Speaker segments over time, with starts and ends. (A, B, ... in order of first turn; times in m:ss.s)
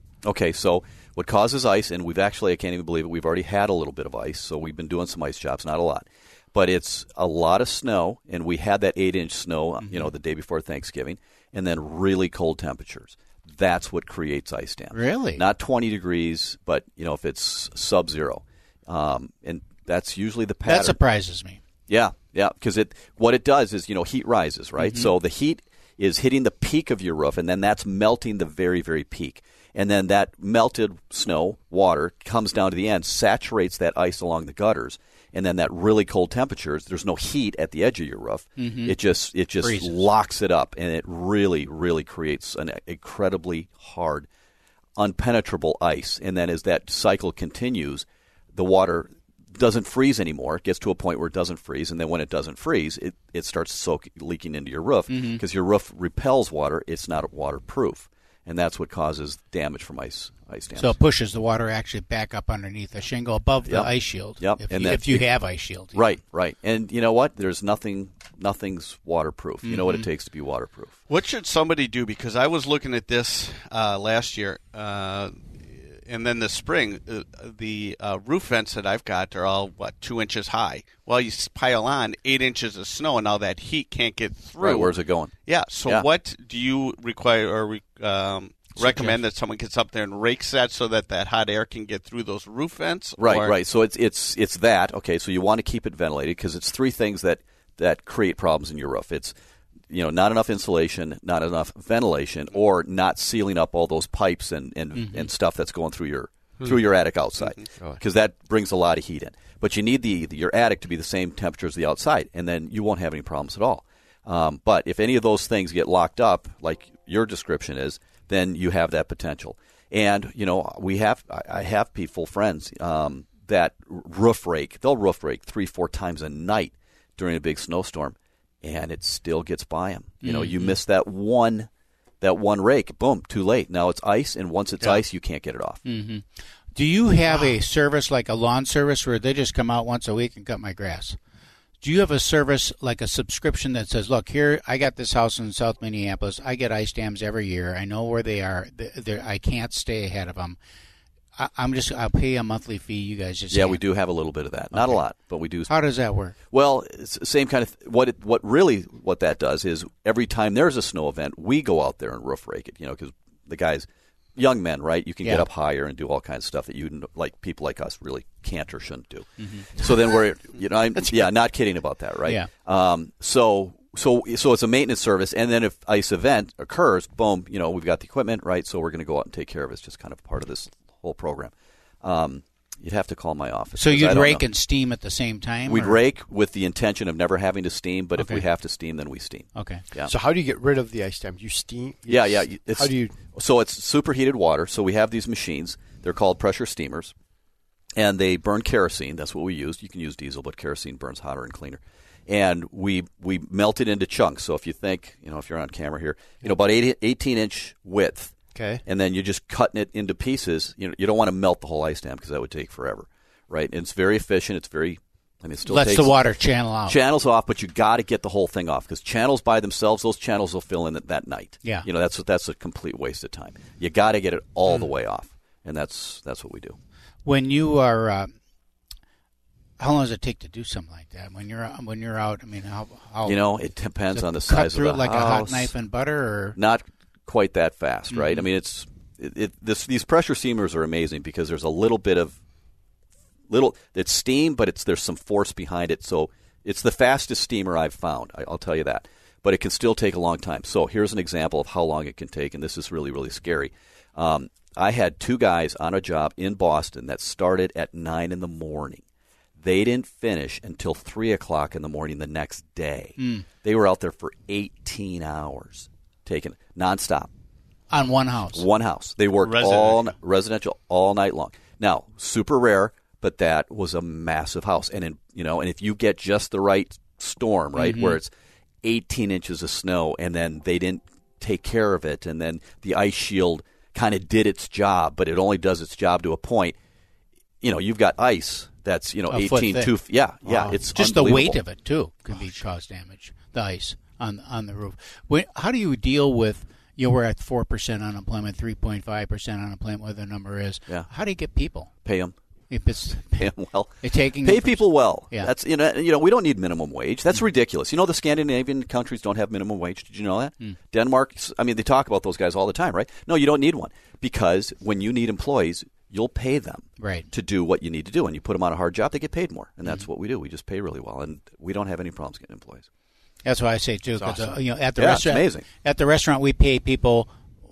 0:00.2-0:21.0 A
0:09.8-0:10.1 B
0:14.9-0:15.4 B
0:20.6-0:21.6 B
0:21.9-0:44.3 A
0:24.8-0:25.1 B
0:38.6-0:39.0 B
0:39.6-0:40.0 B
0:45.0-1:01.0 A
0:55.1-0:55.4 B
1:00.7-1:06.1 B
1:03.6-1:05.3 A
1:05.9-1:11.0 A
1:09.6-1:10.0 B
1:11.1-1:15.3 C
1:16.1-1:24.9 C
1:24.6-1:26.1 A
1:25.4-1:33.6 C
1:33.2-1:39.3 A
1:39.9-2:11.7 A
1:44.9-1:45.3 B
2:10.2-2:10.8 B
2:12.2-2:15.8 A
2:15.8-2:21.2 B
2:21.8-2:30.6 B
2:31.4-2:33.8 B
2:33.5-2:35.7 A
2:34.7-2:35.0 B
2:35.7-2:36.3 B
2:36.5-2:43.8 A
2:44.4-3:04.4 A
2:49.4-2:49.7 B
3:03.8-3:06.0 B
3:05.6-3:10.1 A
3:08.2-3:08.4 B
3:09.5-3:09.8 B
3:10.0-3:13.2 D
3:12.1-3:17.1 A
3:18.0-3:28.3 A
3:28.5-3:28.8 D
3:28.8-3:36.2 A
3:35.6-3:37.0 B
3:36.8-3:46.8 A
3:47.2-3:48.3 B
3:49.8-3:56.6 B
3:53.2-3:55.7 A
3:56.6-4:02.4 A
3:58.1-3:58.4 B
4:03.5-4:19.0 A
4:19.6-4:27.3 A
4:23.2-4:23.4 B
4:27.9-4:28.6 B
4:28.5-4:38.3 A
4:29.4-4:30.1 C
4:37.7-4:38.2 B
4:38.8-4:46.8 A
4:47.6-4:51.6 A
4:49.3-4:49.9 B
4:50.4-4:50.8 D
4:50.9-5:01.9 B
5:02.0-5:02.3 A
5:02.7-5:05.5 B
5:03.4-5:22.9 A
5:17.0-5:17.3 B
5:23.4-5:27.3 B
5:24.2-5:25.6 A